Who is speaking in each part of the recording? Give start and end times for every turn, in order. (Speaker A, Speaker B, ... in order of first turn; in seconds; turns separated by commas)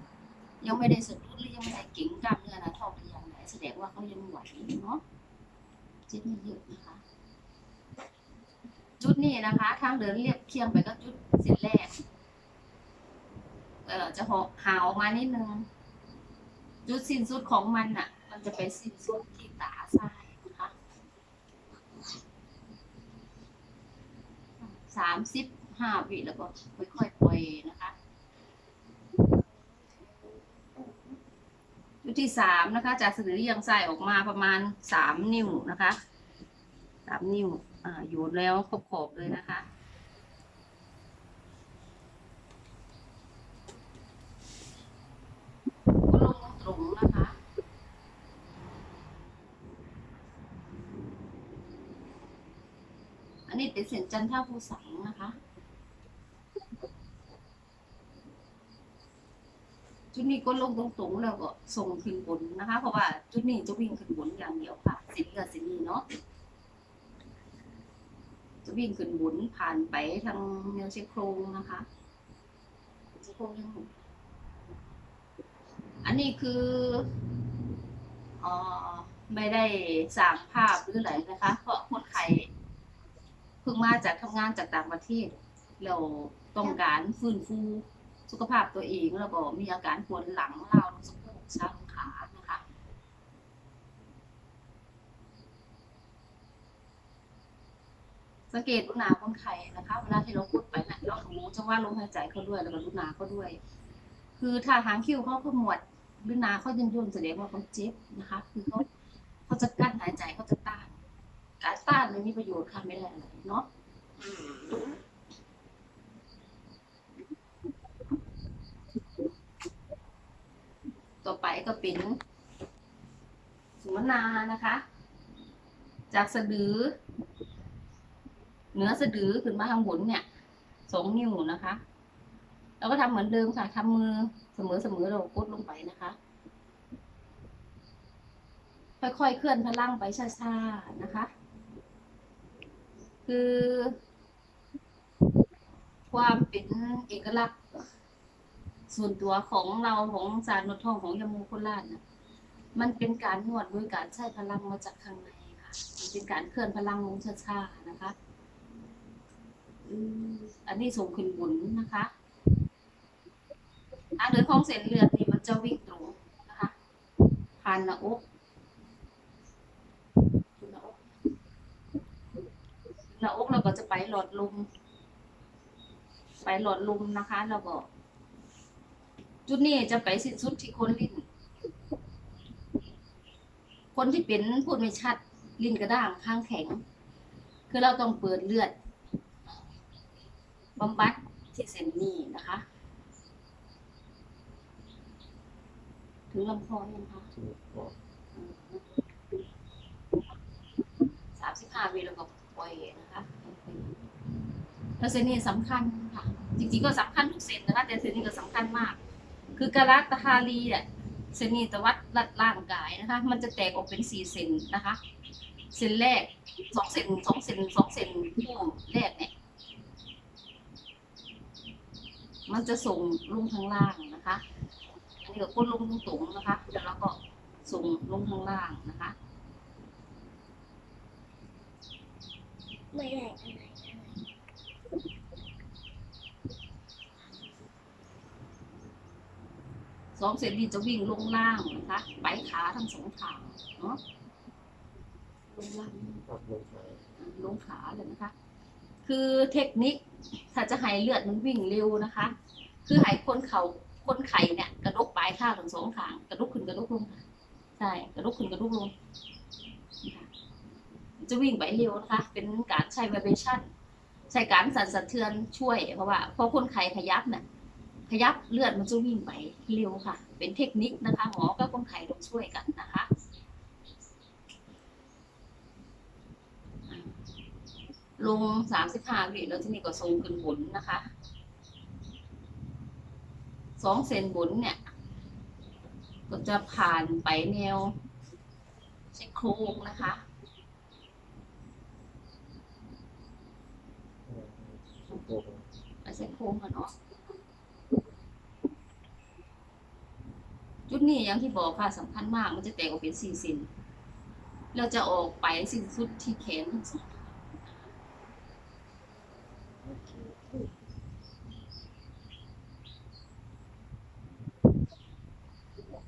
Speaker A: 0.6-5.0, Speaker A: 6.1-7.0, Speaker A: 9.0-11.9, Speaker A: 13.9-15.7, Speaker A: 16.9-20.7, Speaker A: 24.6-27.9, Speaker B: 29.3-31.2, Speaker A: 32.0-36.0, Speaker A: 37.1-39.7, Speaker A: 46.1-47.4, Speaker A: 53.5-55.4, Speaker A: 60.1-66.0, Speaker A: 68.7-71.9, Speaker A: 73.2-73.9, Speaker A: 76.0-77.1, Speaker A: 78.4-82.5, Speaker A: 83.6-92.6, Speaker A: 98.5-103.6, Speaker A: 104.4-108.9, Speaker A: 109.5-111.0, Speaker A: 111.6-113.7, Speaker A: 121.2-122.2, Speaker A: 123.8-124.8, Speaker A: 126.1-126.9, Speaker A: 128.7-130.2, Speaker A: 130.9-131.8, Speaker A: 132.8-136.2, Speaker A: 139.0-141.3, Speaker A: 143.3-143.9, Speaker A: 146.1-147.6, Speaker A: 148.9-152.0, Speaker A: 152.8-158.2, Speaker A: 159.9-162.1, Speaker A: 164.2-166.7, Speaker A: 167.6-168.2, Speaker A: 170.6-171.0, Speaker A: 173.1-174.7, Speaker A: 176.4-177.9, Speaker A: 179.5-181.2, Speaker A: 183.9-186.8, Speaker A: 187.7-188.7, Speaker A: 190.8-192.6, Speaker A: 196.3-197.3, Speaker C: 197.3-198.0, Speaker A: 198.3-198.8, Speaker A: 201.4-204.0, Speaker A: 205.0-209.0, Speaker A: 209.6-215.0, Speaker A: 215.7-219.3, Speaker A: 222.5-224.4, Speaker A: 225.2-229.2, Speaker B: 232.9-234.2, Speaker A: 240.2-244.0, Speaker A: 245.5-246.2, Speaker C: 246.3-247.0, Speaker A: 247.2-248.3, Speaker A: 249.0-250.0, Speaker A: 250.5-252.3, Speaker A: 252.9-257.2, Speaker A: 257.8-258.9, Speaker A: 260.0-260.3, Speaker A: 261.2-263.7, Speaker A: 264.3-267.4, Speaker A: 268.1-273.1, Speaker A: 276.9-277.1, Speaker A: 278.2-281.1, Speaker A: 283.8-284.9, Speaker A: 286.3-287.9, Speaker A: 289.1-290.2, Speaker C: 294.3-295.7, Speaker A: 296.1-296.9, Speaker A: 300.9-303.7, Speaker A: 304.7-307.8, Speaker B: 309.9-310.6